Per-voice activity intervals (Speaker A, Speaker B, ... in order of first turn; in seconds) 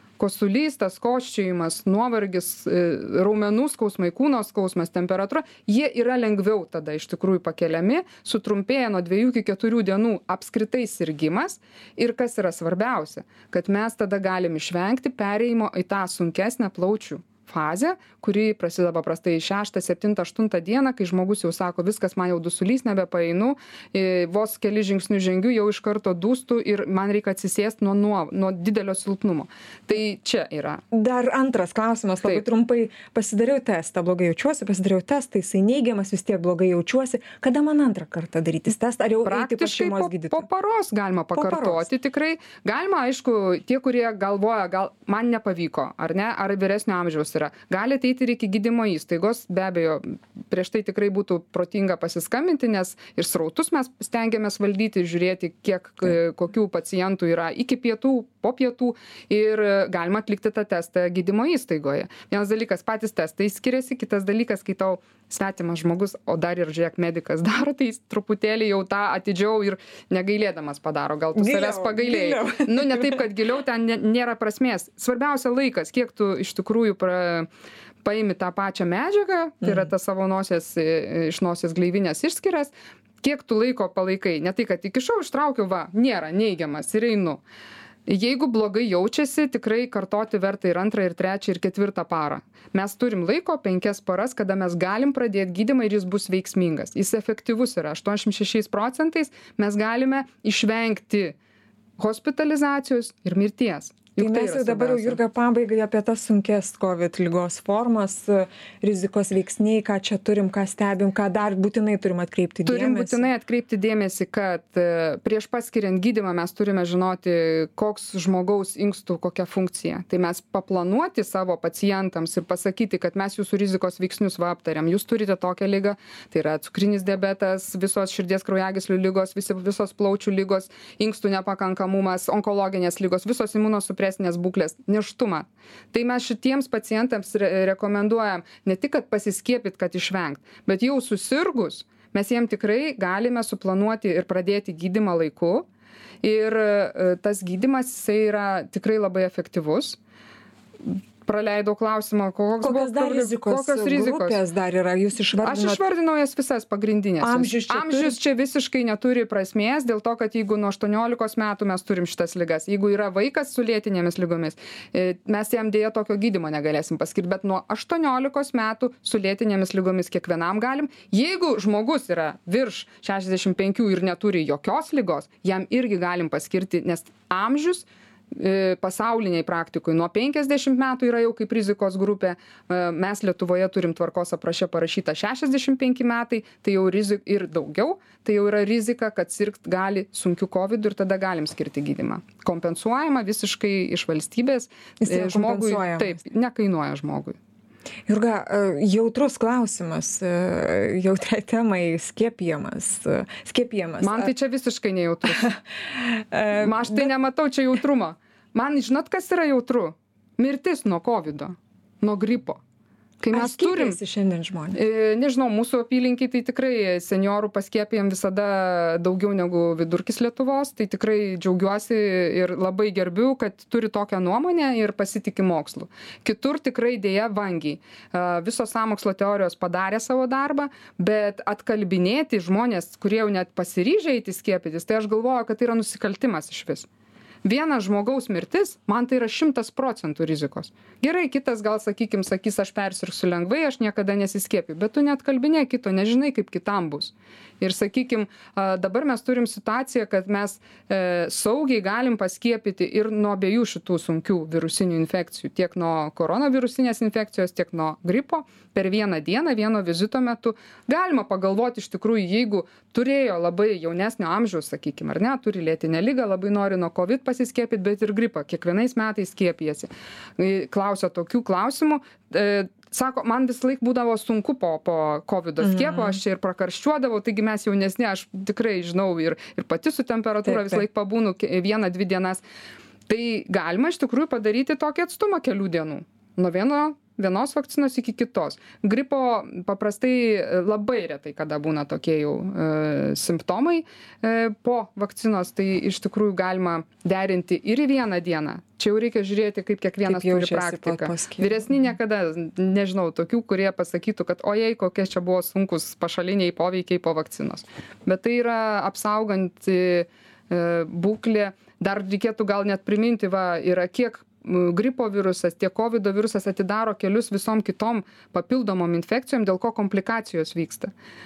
Speaker A: 0.2-30.8, 39.2-77.5, 78.0-87.4, 88.1-101.4, 102.0-105.2, 112.6-145.7, 146.2-150.0, 150.8-154.4, 155.4-197.4, 204.0-205.5, 206.5-212.6, 213.2-214.0, 214.7-236.9, 237.4-282.4, 283.1-320.9
Speaker B: 30.9-40.5, 41.4-41.9, 71.3-73.2, 104.2-113.3, 152.6-155.8, 157.2-158.2, 195.0-196.2, 198.1-204.3, 205.3-207.1, 213.3-214.8, 275.6-276.2, 280.4-280.8, 300.0-301.7